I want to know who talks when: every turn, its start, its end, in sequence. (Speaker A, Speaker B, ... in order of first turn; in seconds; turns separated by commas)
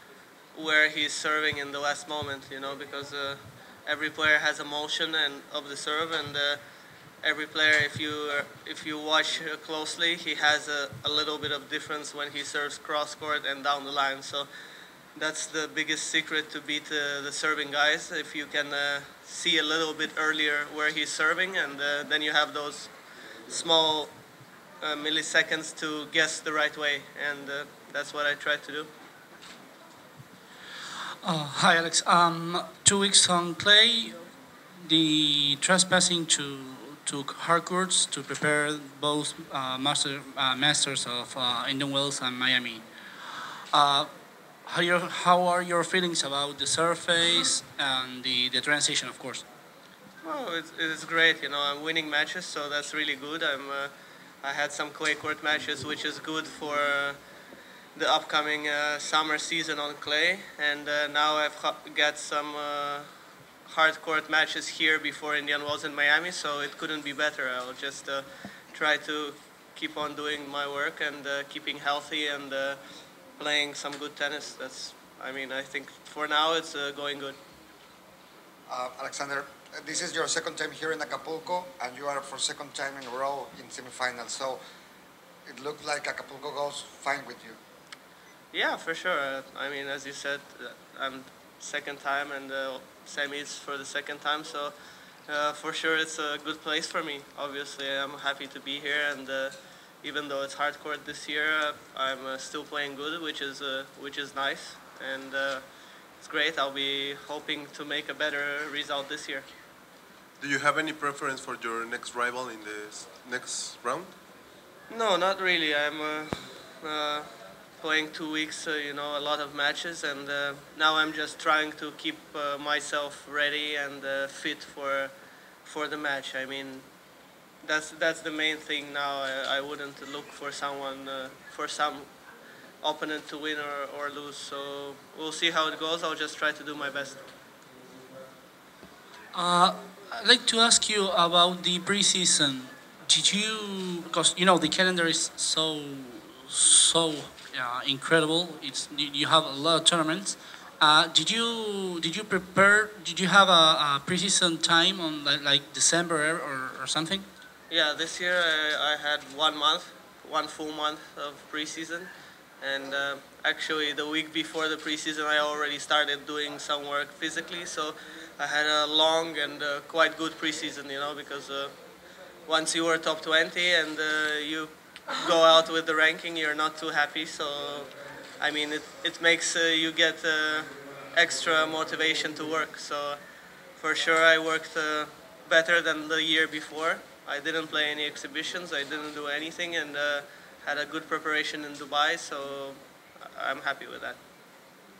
Speaker A: 0.5-6.6, Speaker A: 7.2-14.5, Speaker A: 15.1-22.9, Speaker A: 23.5-24.1, Speaker A: 24.8-28.9, Speaker B: 31.2-34.2, Speaker B: 34.8-42.8, Speaker B: 43.7-44.1, Speaker B: 44.6-49.4, Speaker A: 50.2-53.9, Speaker A: 54.4-57.2, Speaker A: 57.9-63.1, Speaker A: 63.6-72.8, Speaker A: 73.4-77.3, Speaker C: 78.7-84.6, Speaker C: 85.5-87.6, Speaker A: 88.5-94.7, Speaker A: 95.3-105.6, Speaker A: 106.2-109.5, Speaker D: 110.4-114.1, Speaker A: 114.9-125.1, Speaker A: 125.6-126.9, Speaker A: 127.6-132.1, Speaker A: 132.8-137.2, Speaker B: 139.3-157.3, Speaker A: 157.7-162.1, Speaker A: 162.6-171.7, Speaker A: 172.4-183.2, Speaker A: 183.8-194.2